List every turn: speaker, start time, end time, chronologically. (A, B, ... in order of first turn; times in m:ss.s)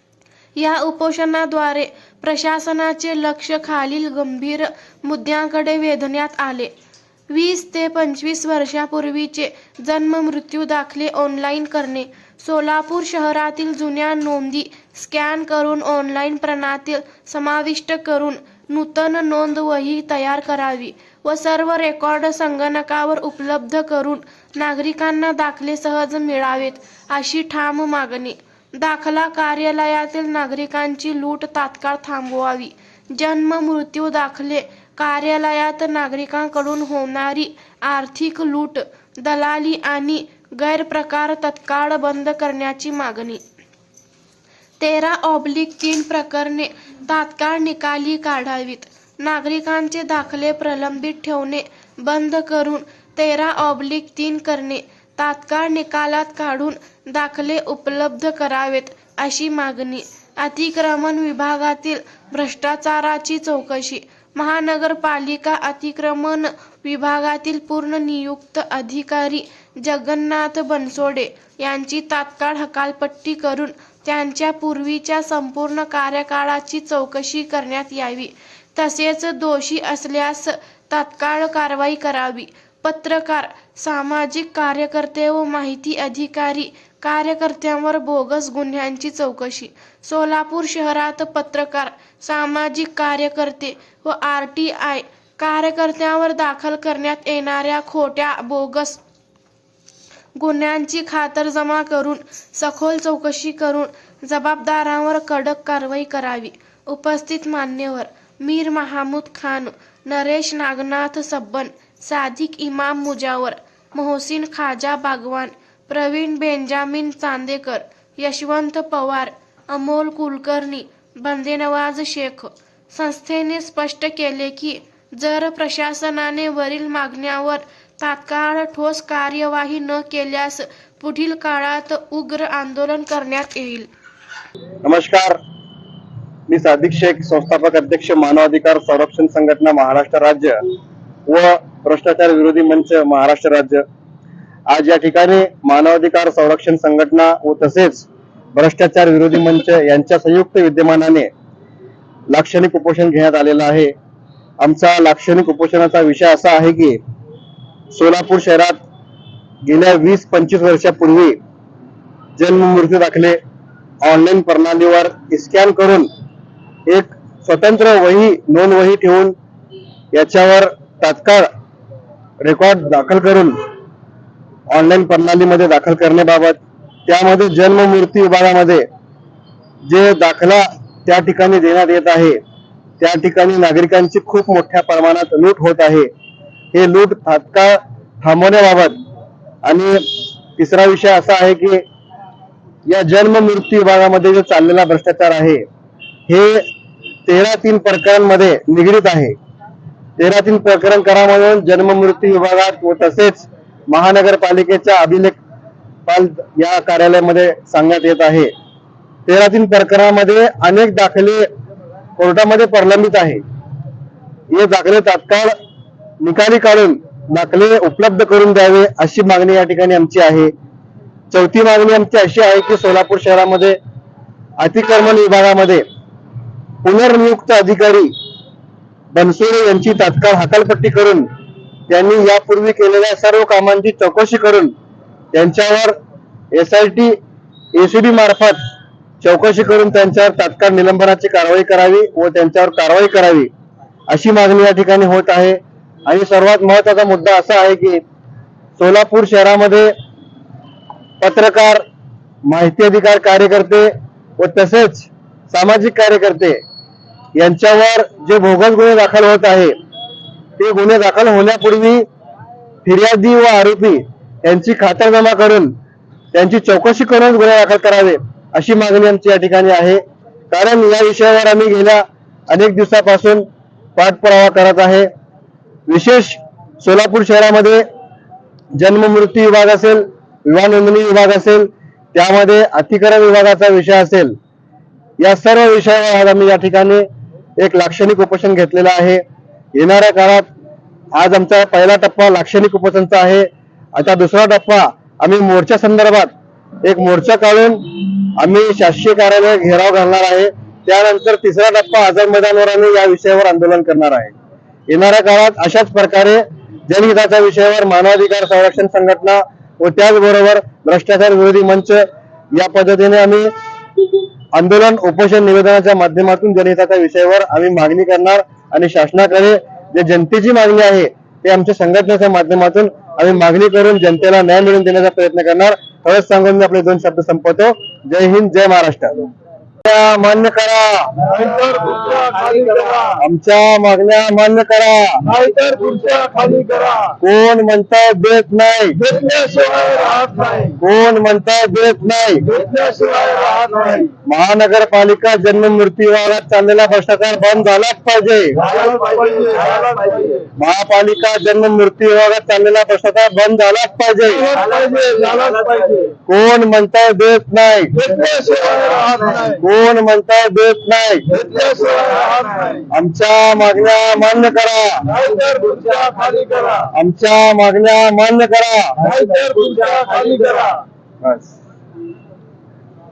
0:00.6-0:06.7 A
0:07.3-0:43.4 A
0:44.8-1:39.0 A
1:40.4-2:13.9 A
2:14.8-2:15.4 B
2:16.5-2:20.6 B
2:21.3-2:23.8 B
2:24.7-2:31.3 B
2:32.3-2:33.9 B
2:34.6-2:37.0 B
2:37.9-2:38.8 B
2:39.6-2:41.4 B
2:42.4-2:43.4 B
2:44.0-2:46.1 B
2:46.9-2:49.4 B
2:50.1-2:51.5 B
2:52.4-2:53.6 B
2:54.7-2:58.9 B
2:59.8-3:02.4 B
3:03.0-3:06.1 B
3:06.7-3:09.0 B
3:09.6-3:11.8 B
3:12.9-3:15.6 B
3:16.3-3:16.7 B
3:17.3-3:19.4 B
3:20.2-3:25.4 B
3:26.1-3:28.5 B
3:29.3-3:31.5 B
3:32.2-3:33.4 B
3:34.5-3:35.6 B
3:36.2-3:40.5 B
3:41.3-3:43.8 B
3:44.6-3:45.8 B
3:46.8-3:48.1 B
3:49.1-3:51.3 B
3:51.9-3:54.7 B
3:55.3-3:56.0 B
3:56.5-3:57.2 B
3:57.7-3:58.6 B
3:59.2-4:03.5 B
4:04.1-4:08.0 B
4:08.8-4:09.9 B
4:11.2-4:11.8 B
4:12.4-4:16.6 B
4:17.4-4:19.8 B
4:20.6-4:22.1 B
4:22.8-4:25.7 B
4:26.3-4:35.1 B
4:35.9-4:37.8 B
4:38.8-4:44.4 B
4:45.2-4:47.1 B
4:47.6-4:49.2 B
4:49.7-4:50.5 B
4:51.2-4:56.3 B
4:56.8-5:04.3 B
5:04.9-5:13.5 B
5:14.5-5:29.2 B
5:29.8-5:31.1 B
5:31.2-5:33.2 C
5:33.2-5:35.2 B
5:35.3-5:37.2 C
5:37.2-5:39.0 B
5:39.0-5:40.8 C
5:40.8-5:42.5 B
5:42.5-5:44.1 C
5:44.2-5:48.6 B
5:48.7-5:50.4 C
5:50.6-5:54.6 B
5:54.4-5:56.1 C
5:56.3-5:58.0 B
5:58.0-5:59.6 C
5:59.6-6:01.3 B
6:01.3-6:02.8 C
6:02.9-6:05.1 B
6:05.1-6:06.9 C
6:06.9-6:09.0 B
6:09.0-6:10.8 C
6:11.2-6:11.6 B